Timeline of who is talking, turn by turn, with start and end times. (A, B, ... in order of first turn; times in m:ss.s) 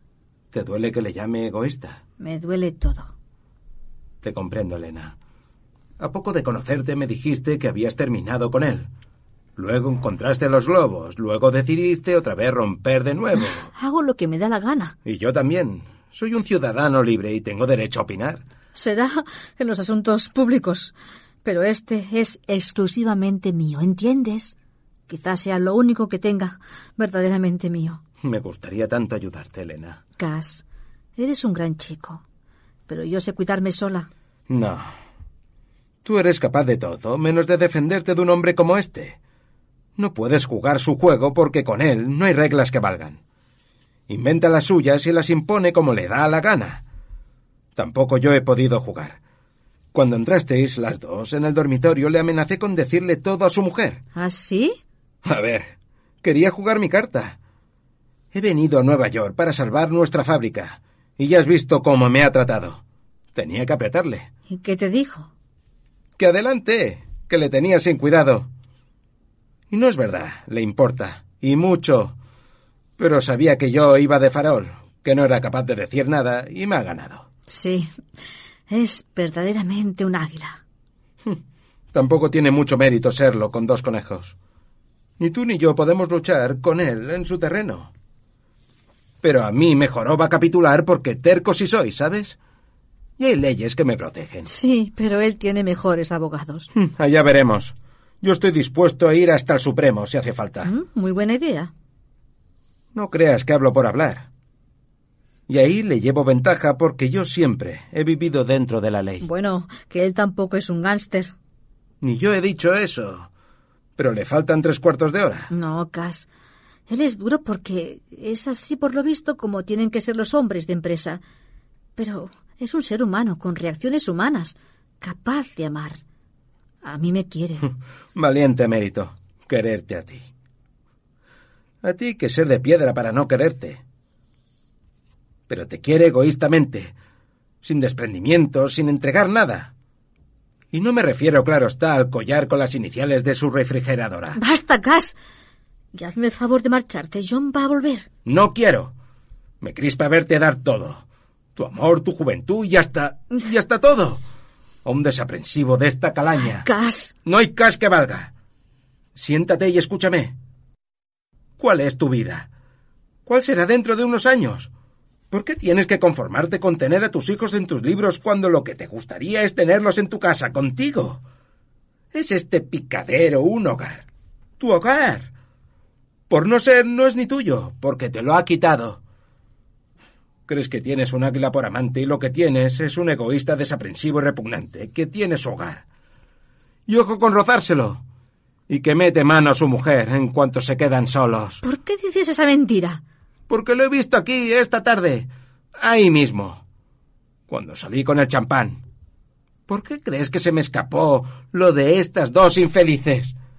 0:00.5-0:02.0 A
0:02.2-0:03.1 B
0:04.2-0:05.2 A
0:06.0-0:08.9 A
0:09.6-0:13.7 A
0:13.7-0:15.0 B
0:15.0-0:18.4 A
0:18.8-0:24.5 B
0:25.1-0:28.0 B
0:28.2-0:30.0 A
0:30.2-0:30.6 B
0:31.2-0:32.2 B
0:32.9-0:34.1 B
0:34.5-0:34.9 A
0:36.0-0:39.2 A
0:40.0-0:43.2 A
0:44.1-0:46.8 A
0:47.8-0:49.2 A
0:49.9-0:54.0 A
0:54.2-0:54.8 B
0:55.2-0:55.7 A
0:56.2-0:57.4 A
0:58.3-1:02.8 A
1:03.3-1:04.3 A
1:04.5-1:05.3 B
1:06.2-1:08.5 A
1:09.7-1:12.2 A
1:13.0-1:17.3 A
1:17.5-1:17.9 B
1:18.7-1:20.6 B
1:21.9-1:24.4 A
1:25.2-1:27.9 A
1:29.2-1:32.4 A
1:33.2-1:34.5 A
1:34.5-1:36.7 B
1:36.7-1:40.7 A
1:40.6-1:41.7 B
1:42.9-1:44.3 A
1:45.5-1:49.2 A
1:49.2-1:51.3 B
1:52.0-1:53.3 A
1:54.0-1:55.5 A
1:55.5-1:56.3 B
1:56.9-2:01.2 B
2:02.0-2:06.0 B
2:06.8-2:07.7 B
2:07.7-2:10.3 A
2:11.8-2:13.8 A
2:15.5-2:17.0 A
2:17.6-2:19.7 A
2:20.7-2:24.4 A
2:24.4-2:25.2 B
2:25.9-2:28.1 B
2:28.2-2:28.9 A
2:29.6-2:31.0 A
2:31.6-2:34.2 A
2:34.8-2:36.7 A
2:36.5-2:37.1 B
2:37.2-2:38.3 A
2:39.2-2:40.3 A
2:41.6-2:42.5 A
2:43.3-2:44.7 A
2:45.3-2:51.2 A
2:52.1-2:54.1 A
2:54.6-2:55.3 A
2:56.3-2:59.0 A
3:00.5-3:05.8 A
3:06.9-3:08.0 A
3:08.7-3:11.6 A
3:11.6-3:13.0 B
3:13.5-3:16.6 A
3:17.5-3:18.8 A
3:19.7-3:23.3 A